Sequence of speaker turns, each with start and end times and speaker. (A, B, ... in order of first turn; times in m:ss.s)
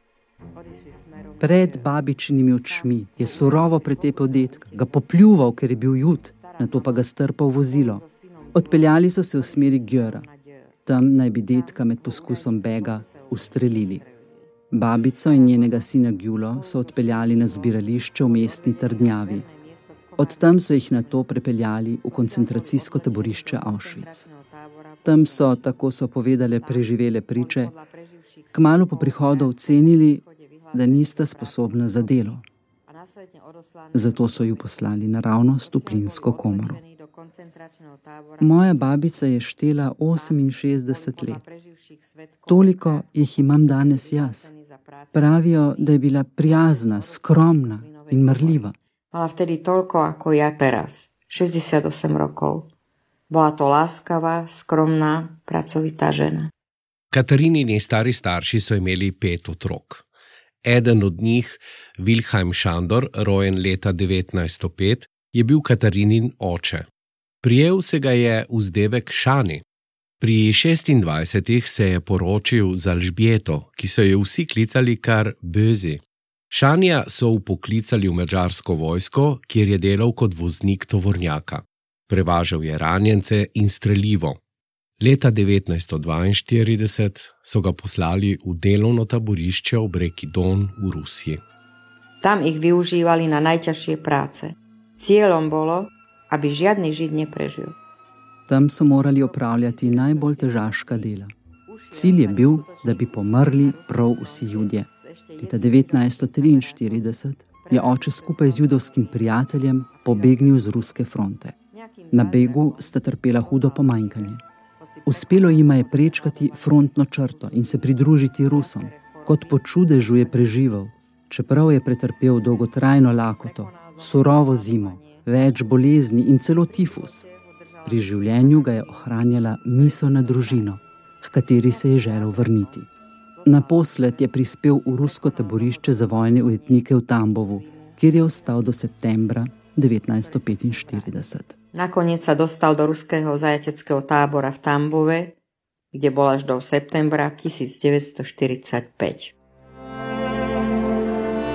0:00.5-0:01.9 A
0:01.4-0:08.0 B
0:02.6-0:05.5 A
0:06.3-0:10.8 A
0:08.5-0:10.2 B
0:10.9-0:14.0 B
0:11.5-0:25.8 A
0:14.7-0:19.4 B
0:20.2-0:24.2 B
0:25.0-0:27.7 B
0:26.6-0:32.3 A
0:28.5-0:30.2 B
0:30.7-0:32.4 B
0:32.9-0:34.9 A
0:33.9-0:36.8 B
0:35.6-0:39.1 A
0:38.4-0:41.4 B
0:40.1-0:52.7 A
0:42.5-0:44.5 B
0:45.1-0:48.7 B
0:53.3-0:56.5 A
0:57.1-1:00.0 C
1:00.6-1:06.9 C
1:07.4-1:09.6 C
1:10.2-1:24.4 C
1:25.0-1:31.4 C
1:32.2-1:37.8 A
1:38.5-1:41.3 B
1:39.0-1:41.1 A
1:41.7-1:50.8 A
1:41.9-1:44.9 B
1:45.4-1:51.6 B
1:51.7-2:01.0 A
1:52.1-1:54.4 B
1:55.0-2:07.2 B
2:02.4-2:05.8 A
2:06.6-2:10.8 A
2:07.8-2:12.8 B
2:11.5-2:18.6 A
2:13.4-2:21.6 B
2:20.0-2:25.4 A
2:25.9-2:29.3 A